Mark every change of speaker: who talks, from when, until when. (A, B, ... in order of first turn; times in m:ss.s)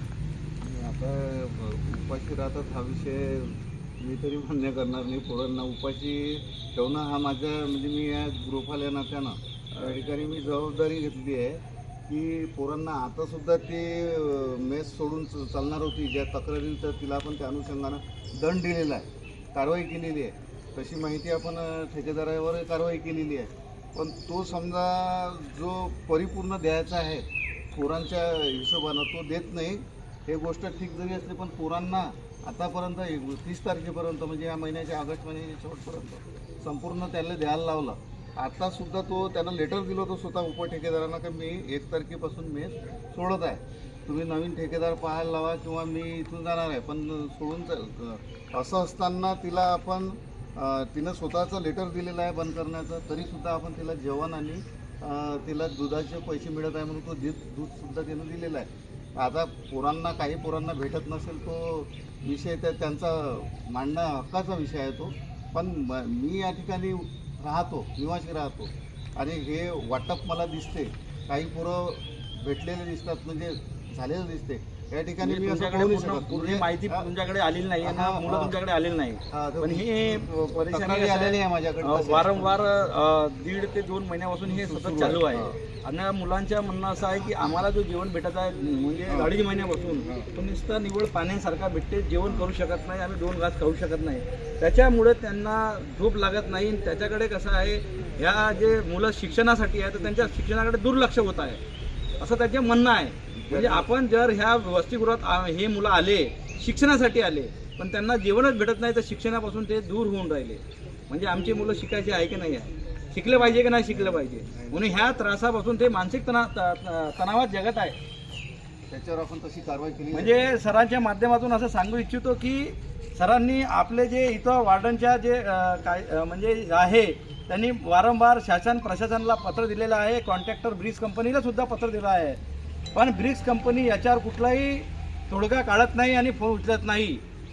0:00.6-1:17.1 A
1:15.2-1:41.6 B
1:17.8-1:18.5 A
1:19.3-1:22.6 A
1:24.5-1:25.6 A
1:29.1-1:29.3 A
1:29.9-1:30.3 A
1:42.2-1:58.0 B
1:43.4-1:43.9 A
1:53.5-1:55.1 A
1:58.9-2:00.4 A
2:00.1-2:12.4 B
2:13.0-2:17.2 B